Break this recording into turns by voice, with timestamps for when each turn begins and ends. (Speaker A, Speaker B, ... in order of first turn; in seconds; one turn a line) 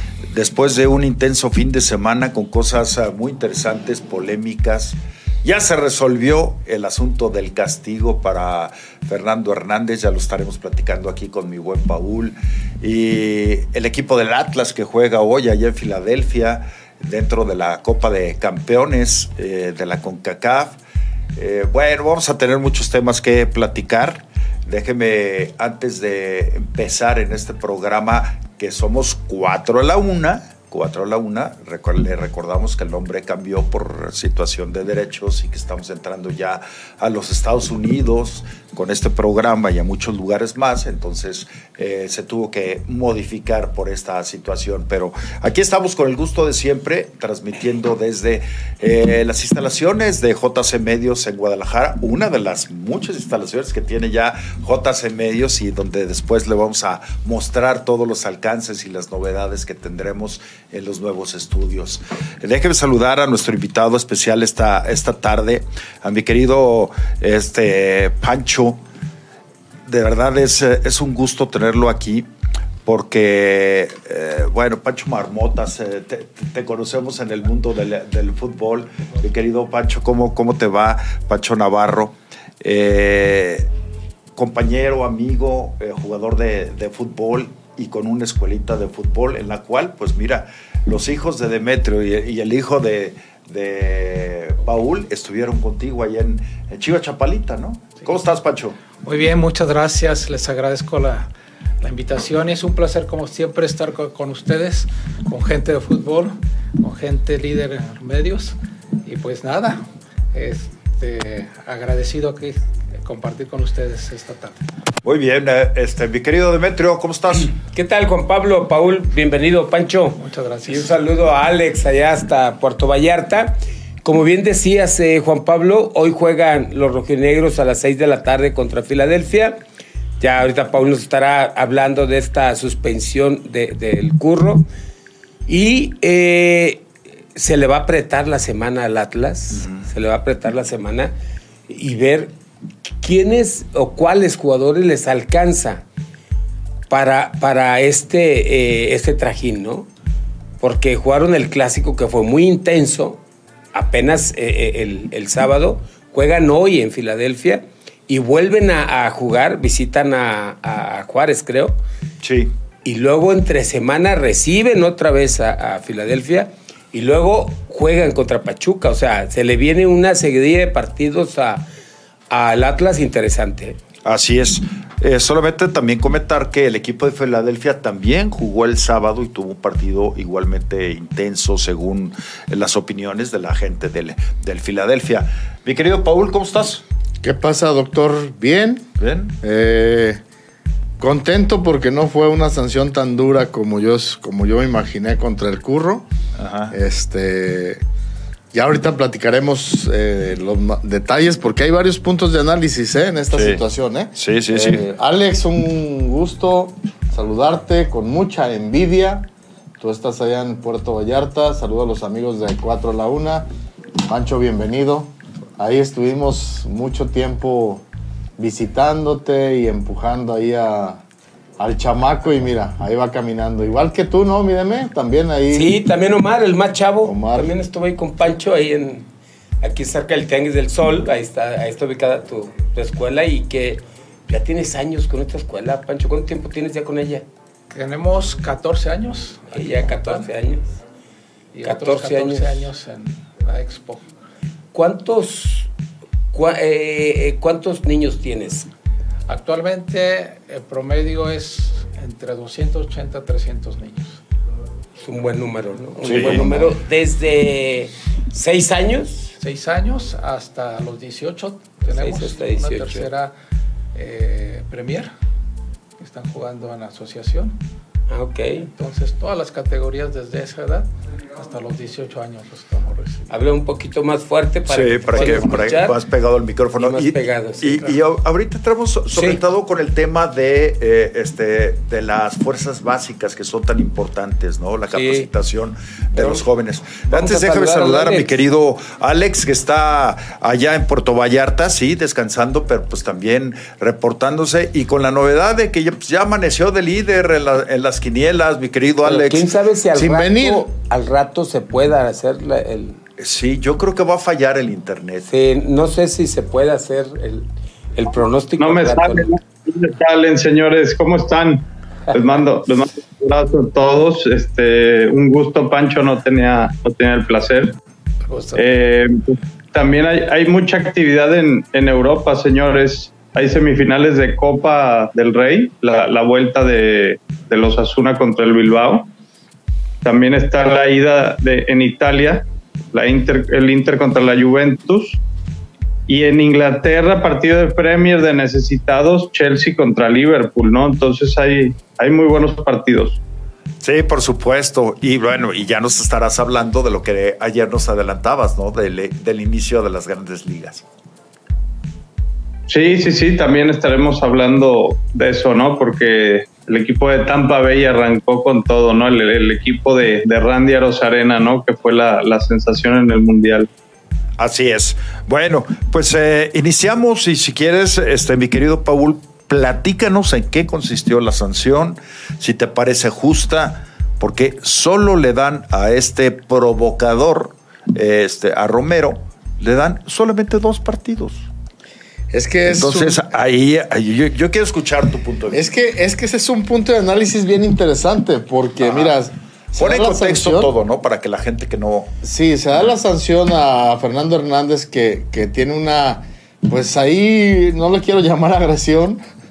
Speaker A: 0.3-20.8
Speaker A: 21.4-68.8
Speaker A: 69.9-72.3
Speaker A: 72.8-83.7
Speaker A: 84.4-98.8
Speaker B: 99.0-101.3
Speaker B: 101.8-109.8
Speaker B: 110.3-114.6
Speaker A: 115.0-117.5
Speaker C: 117.7-129.6
Speaker B: 120.2-120.9
Speaker C: 130.2-134.7
Speaker C: 135.5-141.1
Speaker A: 139.5-139.8
Speaker C: 141.7-142.3
Speaker C: 143.0-145.8
Speaker C: 146.9-149.9
Speaker C: 150.6-153.2
Speaker C: 153.7-161.8
Speaker A: 162.2-162.5
Speaker C: 162.8-171.7
Speaker C: 172.3-173.8
Speaker A: 174.1-186.8
Speaker D: 187.2-188.9
Speaker A: 189.0-189.3
Speaker D: 189.4-190.2
Speaker D: 191.0-196.1
Speaker A: 196.4-196.8
Speaker D: 196.7-197.8
Speaker D: 198.5-209.3
Speaker A: 203.3-203.6
Speaker A: 204.2-204.8
Speaker D: 209.8-213.5
Speaker D: 214.1-217.8
Speaker D: 218.4-221.0
Speaker D: 221.6-225.7
Speaker C: 225.5-229.1
Speaker D: 227.0-227.5
Speaker C: 229.6-237.2
Speaker B: 237.7-240.3
Speaker C: 239.5-240.7
Speaker B: 241.5-244.0
Speaker C: 241.7-242.7
Speaker C: 244.7-245.7
Speaker C: 246.3-248.7
Speaker B: 249.3-254.2
Speaker C: 255.0-259.3
Speaker A: 256.0-256.7
Speaker B: 259.4-263.3
Speaker C: 261.9-263.1
Speaker B: 263.9-265.1
Speaker B: 266.0-267.6
Speaker C: 268.1-268.7
Speaker B: 268.7-273.3
Speaker C: 273.3-276.0
Speaker A: 274.7-299.5
Speaker B: 275.1-275.6
Speaker C: 276.8-277.9
Speaker C: 279.1-279.4
Speaker C: 284.9-285.3
Speaker C: 286.1-286.4
Speaker C: 287.1-288.4
Speaker C: 299.0-303.0
Speaker D: 299.9-300.6
Speaker A: 303.2-305.3
Speaker C: 305.3-309.3
Speaker E: 308.6-317.8
Speaker B: 318.3-318.6
Speaker E: 318.6-329.1
Speaker E: 330.0-335.2
Speaker E: 336.1-343.2
Speaker A: 343.8-350.9
Speaker E: 352.7-363.7
Speaker A: 364.4-381.5
Speaker D: 382.3-383.2
Speaker A: 382.7-385.7
Speaker D: 385.5-390.7
Speaker A: 388.8-389.1
Speaker A: 389.8-392.1
Speaker D: 392.2-399.2